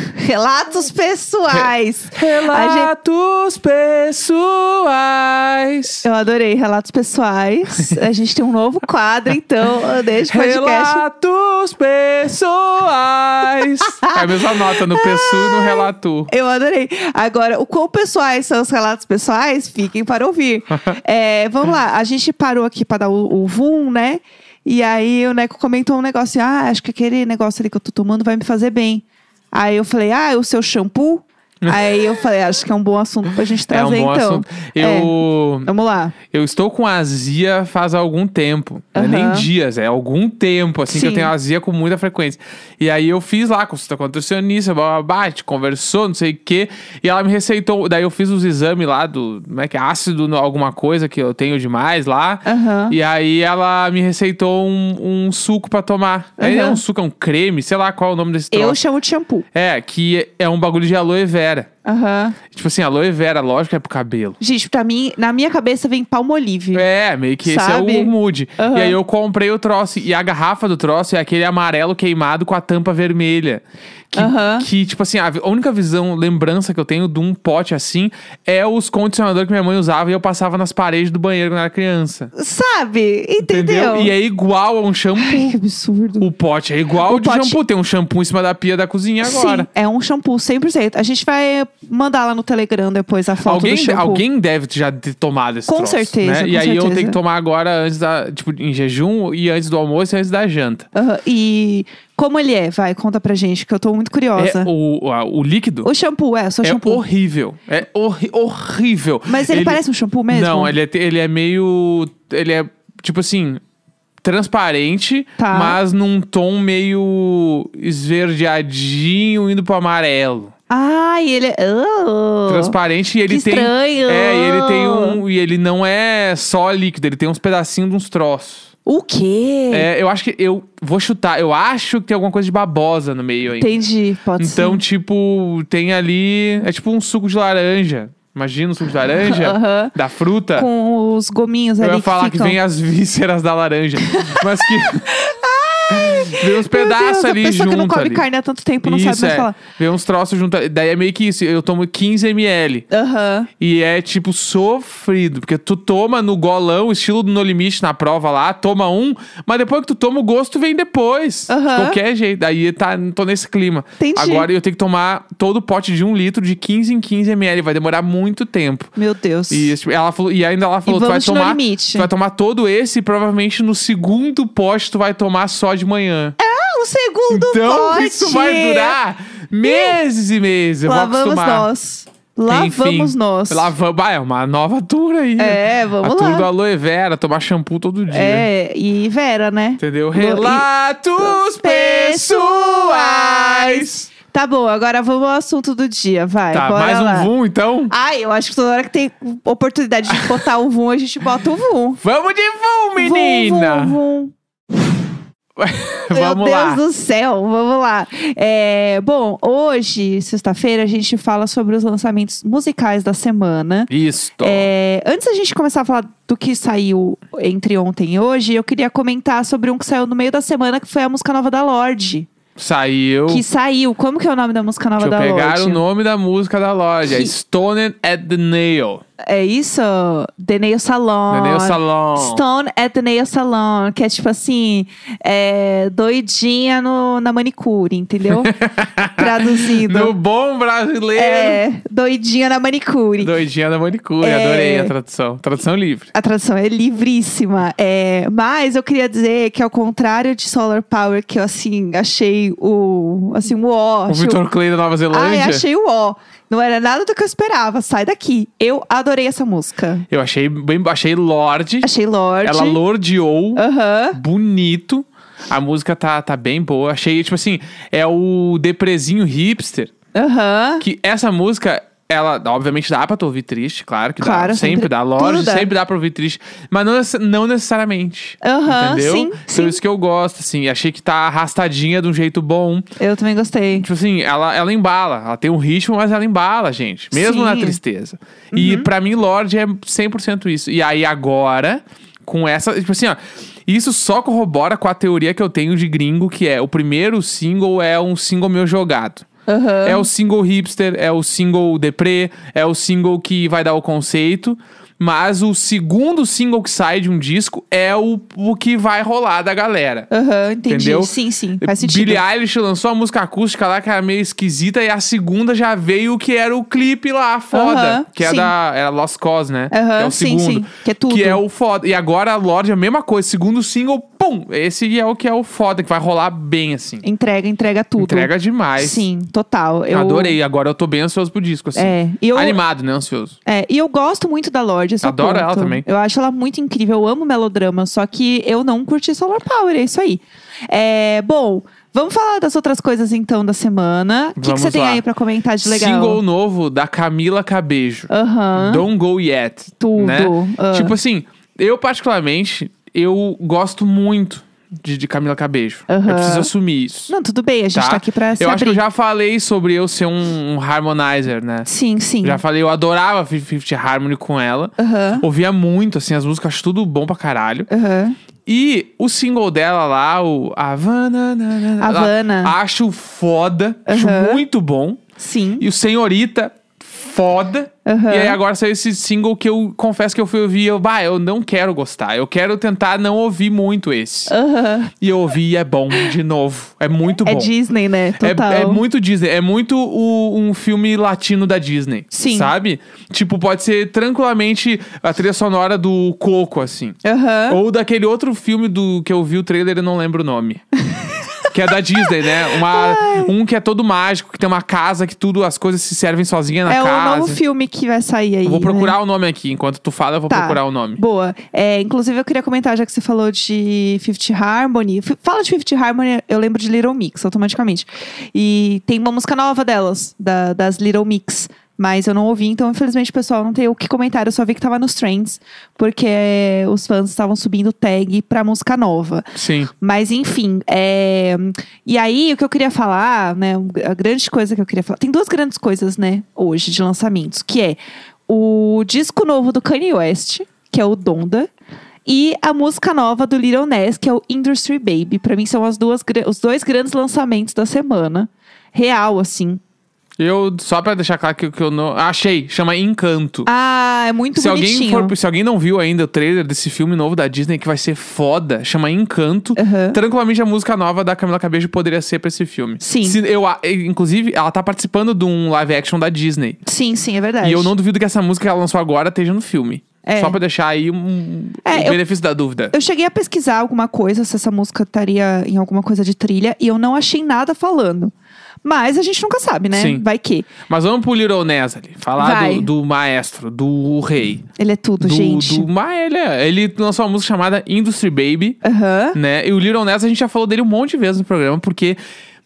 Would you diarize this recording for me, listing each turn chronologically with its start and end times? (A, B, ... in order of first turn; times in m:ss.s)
0:00.2-0:02.9 A
0:01.5-0:06.0 B
0:06.0-0:11.0 A
0:10.3-0:16.3 B
0:13.8-0:36.1 A
0:31.6-0:32.0 B
0:33.7-0:35.7 B
0:36.3-0:58.8 B
0:38.9-0:39.5 A
0:40.9-0:41.3 A
0:52.4-0:53.0 A
0:56.4-0:56.8 A
0:58.5-0:59.4 A
0:59.5-1:01.7 B
1:01.8-1:02.4 A
1:02.5-1:04.4 B
1:04.4-1:06.8 A
1:06.7-1:22.3 B
1:07.4-1:09.0 A
1:14.1-1:14.7 A
1:22.3-1:24.1 A
1:23.4-1:25.6 B
1:25.2-1:26.3 A
1:26.2-1:29.7 B
1:27.0-1:27.6 A
1:29.2-1:34.2 A
1:33.4-1:40.9 B
1:35.7-1:37.2 A
1:40.9-1:44.7 A
1:44.4-1:45.9 B
1:45.8-1:47.0 A
1:46.6-1:53.6 B
1:49.3-1:50.7 A
1:54.2-2:00.5 B
1:55.4-1:55.8 A
2:00.7-2:02.7 A
2:02.5-2:08.7 B
2:03.3-2:05.2 A
2:08.8-2:09.9 A
2:09.7-2:13.7 B
2:13.6-2:14.8 A
2:14.4-2:20.7 B
2:19.2-2:19.9 A
2:20.5-2:22.6 A
2:21.8-2:25.1 B
2:24.0-2:29.6 A
2:25.9-2:28.2 B
2:28.8-2:32.8 B
2:32.9-2:33.5 A
2:33.6-2:48.9 B
2:41.5-2:42.0 A
2:44.0-2:44.5 A
2:49.0-2:49.7 A
2:49.5-2:56.4 B
2:50.8-2:52.1 A
2:56.4-2:59.0 A
2:57.3-3:01.7 B
2:59.6-3:00.0 A
3:00.8-3:03.7 A
3:02.5-3:08.5 B
3:05.4-3:06.5 A
3:08.1-3:10.6 A
3:09.8-3:14.1 B
3:11.2-3:17.3 A
3:16.5-3:17.9 B
3:17.9-3:22.0 A
3:20.1-3:20.4 B
3:22.0-3:24.0 B
3:23.0-3:24.3 A
3:25.6-3:26.8 B
3:26.1-3:42.3 A
3:33.9-3:34.7 B
3:42.6-3:43.4 B
3:43.3-3:45.8 A
3:45.0-3:49.0 B
3:47.1-3:47.3 A
3:49.2-3:58.5 A
3:51.3-3:52.4 B
3:58.3-4:01.6 B
3:59.1-4:00.1 A
4:01.1-4:03.3 A
4:03.2-4:06.1 B
4:04.2-4:04.9 A
4:06.1-4:14.4 A
4:14.1-4:15.6 B
4:15.1-4:20.0 A
4:20.1-4:21.9 B
4:21.8-4:22.8 A
4:22.4-4:29.9 B
4:23.6-4:24.2 A
4:30.1-4:30.8 A
4:30.8-4:42.9 B
4:34.2-4:35.7 A
4:38.4-4:39.8 A
4:43.0-4:43.9 A
4:43.8-4:59.2 B
4:47.1-4:47.8 A
4:48.5-4:48.9 A
4:59.5-5:00.1 A
4:59.8-5:10.1 B
5:10.1-5:12.2 A
5:10.7-5:27.0 B
5:17.5-5:18.5 A
5:19.7-5:21.4 A
5:27.0-5:30.4 A
5:28.0-5:29.1 B
5:29.9-5:33.4 B
5:31.8-5:32.6 A
5:33.4-5:46.2 A
5:35.0-5:35.8 B
5:44.4-5:45.0 B
5:45.6-5:57.1 B
5:48.1-5:48.8 A
5:49.8-5:50.9 A
5:55.9-5:56.5 A
5:57.1-5:58.8 A
5:57.7-6:01.7 B
6:01.6-6:02.4 A
6:02.2-6:07.7 B
6:04.8-6:05.2 A
6:07.7-6:08.2 A
6:08.4-6:15.0 B
6:11.8-6:12.5 A
6:13.9-6:14.4 A
6:15.2-6:15.6 A
6:15.6-6:24.3 B
6:17.8-6:18.4 A
6:24.3-6:24.9 A
6:25.0-6:27.5 B
6:27.2-6:28.8 A
6:28.2-6:37.0 B
6:32.1-6:32.5 A
6:37.0-6:37.6 A
6:37.5-6:40.6 B
6:40.9-6:43.3 A
6:41.5-6:47.4 B
6:46.6-6:48.9 A
6:48.4-6:51.0 B
6:50.3-7:21.5 A
7:09.4-7:09.7 B
7:22.0-7:29.6 A
7:30.2-7:33.5 B
7:33.4-7:35.1 A
7:34.4-7:46.6 B
7:39.6-7:40.0 A
7:42.8-7:43.2 A
7:46.6-7:47.7 A
7:47.4-7:52.7 B
7:50.0-7:50.4 A
7:51.6-7:52.0 A
7:52.7-7:58.1 A
7:58.6-8:00.5 A
7:59.7-8:00.0 B
8:00.6-8:04.5 B
8:02.2-8:02.7 A
8:04.6-8:05.7 A
8:05.0-8:08.6 B
8:08.6-8:09.2 A
8:09.1-8:12.0 B